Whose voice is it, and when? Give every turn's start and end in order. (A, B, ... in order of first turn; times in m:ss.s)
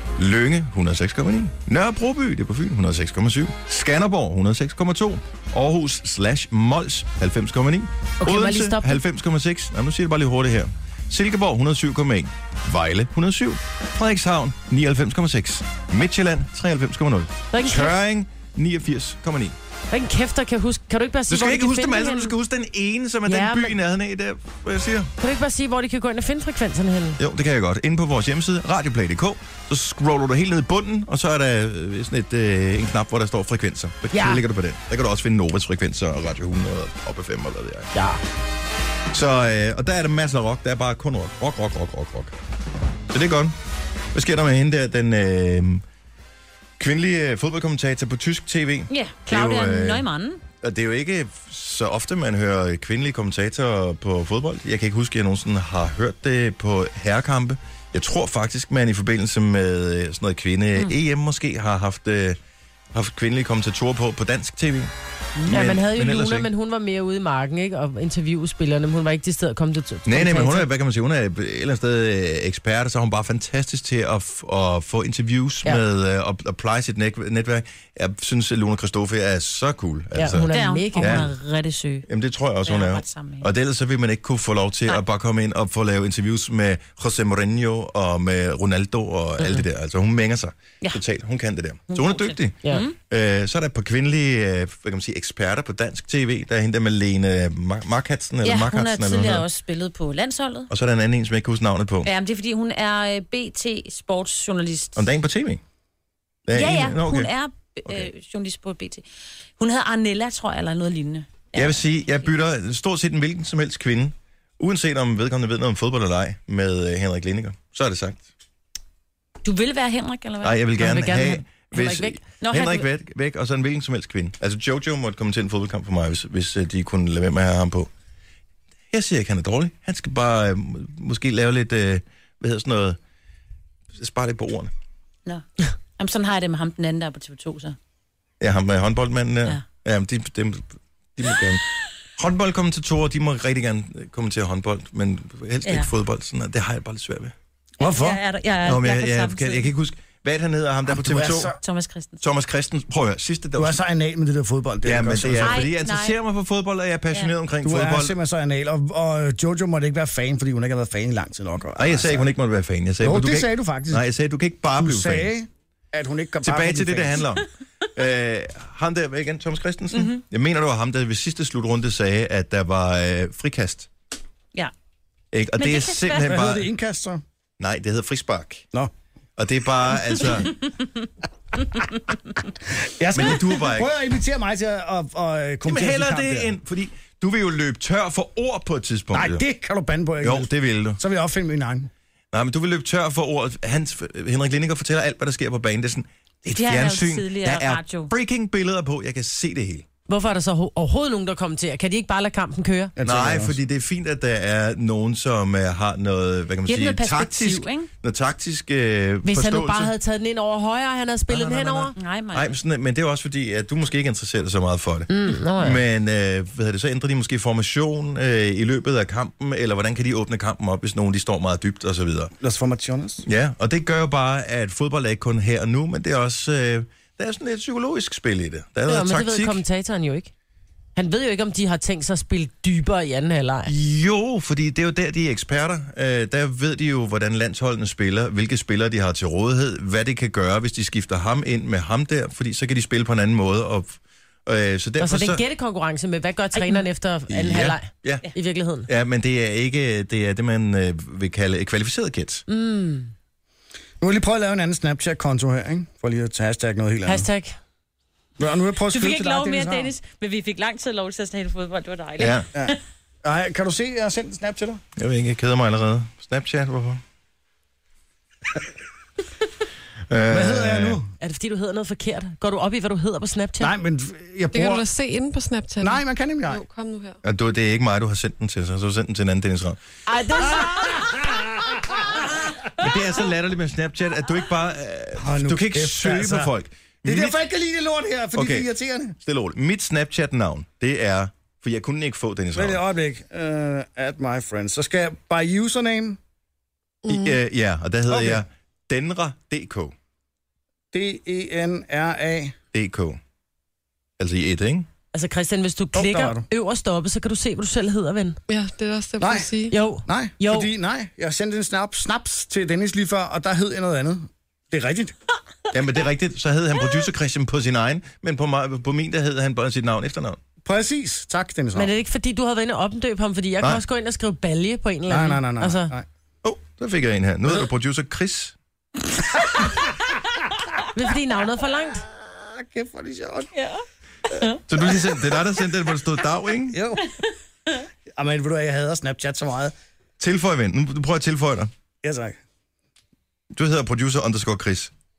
0:00.2-0:19.5 A
0:08.2-0:09.0 B
0:17.5-0:18.0 B
0:19.9-0:22.3 B
0:21.3-0:25.1 A
0:23.2-0:23.8 B
0:25.2-0:27.2 B
0:27.2-0:37.9 A
0:34.1-0:34.4 B
0:37.9-0:38.2 B
0:39.1-0:42.3 A
0:43.1-0:43.6 A
0:44.1-0:45.8 A
0:46.8-0:50.0 A
0:48.9-0:50.4 C
0:50.6-1:02.4 A
1:02.9-1:04.9 A
1:05.5-1:06.5 A
1:05.5-1:10.7 B
1:10.0-1:21.3 A
1:20.1-1:21.3 B
1:20.5-1:22.0 C
1:22.1-1:39.4 A
1:22.6-1:23.5 C
1:29.4-1:29.6 B
1:31.9-1:33.0 C
1:38.4-1:40.7 C
1:40.7-1:42.1 A
1:42.0-1:45.0 C
1:45.0-1:45.6 A
1:46.5-1:47.3 A
1:46.5-1:49.0 C
1:49.6-1:52.3 C
1:51.5-1:58.2 A
1:59.4-2:00.6 C
2:00.4-2:07.9 A
2:00.8-2:02.2 B
2:02.4-2:02.9 C
2:08.9-2:13.0 A
2:14.0-2:14.7 A
2:16.0-2:17.8 C
2:18.4-2:21.6 A
2:22.2-2:27.3 A
2:25.6-2:25.9 C
2:27.8-2:28.2 D
2:27.8-2:29.7 C
2:28.6-2:31.6 A
2:30.8-2:31.6 D
2:31.6-2:32.2 C
2:32.2-2:33.8 A
2:33.6-2:35.6 D
2:34.8-2:38.2 A
2:35.4-2:36.2 C
2:37.6-2:42.3 D
2:41.8-2:45.3 A
2:43.0-2:44.0 D
2:44.7-2:47.2 D
2:46.4-2:53.9 A
2:49.9-2:50.2 C
2:55.3-2:56.7 A
2:55.6-2:56.4 C
2:56.2-2:57.2 D
2:57.6-2:58.6 A
2:59.4-3:00.6 A
3:02.8-3:06.5 D
3:03.1-3:03.9 A
3:05.6-3:09.4 A
3:09.1-3:11.9 D
3:10.2-3:11.0 A
3:12.3-3:19.8 A
3:16.5-3:18.1 C
3:20.1-3:22.9 B
3:23.0-3:23.6 D
3:23.0-3:29.9 A
3:26.7-3:27.9 C
3:29.2-3:31.9 B
3:31.3-3:42.3 A
3:32.0-3:32.5 C
3:35.1-3:35.8 B
3:42.4-3:43.2 D
3:43.2-3:49.6 A
3:48.9-3:50.3 B
3:50.9-3:53.7 B
3:53.6-4:05.4 A
4:05.0-4:08.9 B
4:06.5-4:06.8 C
4:07.3-4:08.3 A
4:08.9-4:12.4 A
4:12.5-4:13.1 B
4:14.0-4:17.3 D
4:17.0-4:17.6 B
4:18.4-4:19.9 D
4:18.9-4:22.8 C
4:22.2-4:22.4 A
4:22.5-4:24.8 D
4:25.0-4:27.0 A
4:30.1-4:31.0 A
4:30.3-4:31.0 D
4:31.2-4:33.7 B
4:33.6-4:34.8 D
4:34.5-4:37.2 E
4:35.8-4:36.6 D
4:37.2-4:39.8 A
4:40.1-4:41.0 B
4:40.6-4:42.2 D
4:42.8-4:47.4 A
4:45.2-4:46.5 D
4:47.0-4:49.2 D
4:48.3-4:52.8 A
4:52.5-4:56.2 D
4:57.0-4:57.4 E
4:57.1-4:59.9 A
4:58.1-4:58.4 D
5:00.9-5:02.6 D
5:02.7-5:03.2 A
5:04.2-5:04.9 A
5:05.1-5:08.4 B
5:05.9-5:06.4 D
5:08.5-5:09.7 E
5:09.2-5:09.5 D
5:09.7-5:10.7 B
5:10.0-5:15.2 D
5:15.7-5:20.4 A
5:20.6-5:21.9 D
5:21.7-5:25.9 B
5:25.1-5:26.1 D
5:26.4-5:28.6 A
5:30.9-5:32.0 B
5:32.1-5:33.5 D
5:33.5-5:34.6 C
5:34.7-5:36.8 A
5:36.7-5:37.0 D
5:38.1-5:39.7 D
5:40.2-5:41.7 A
5:42.0-5:42.4 D
5:43.5-5:44.9 A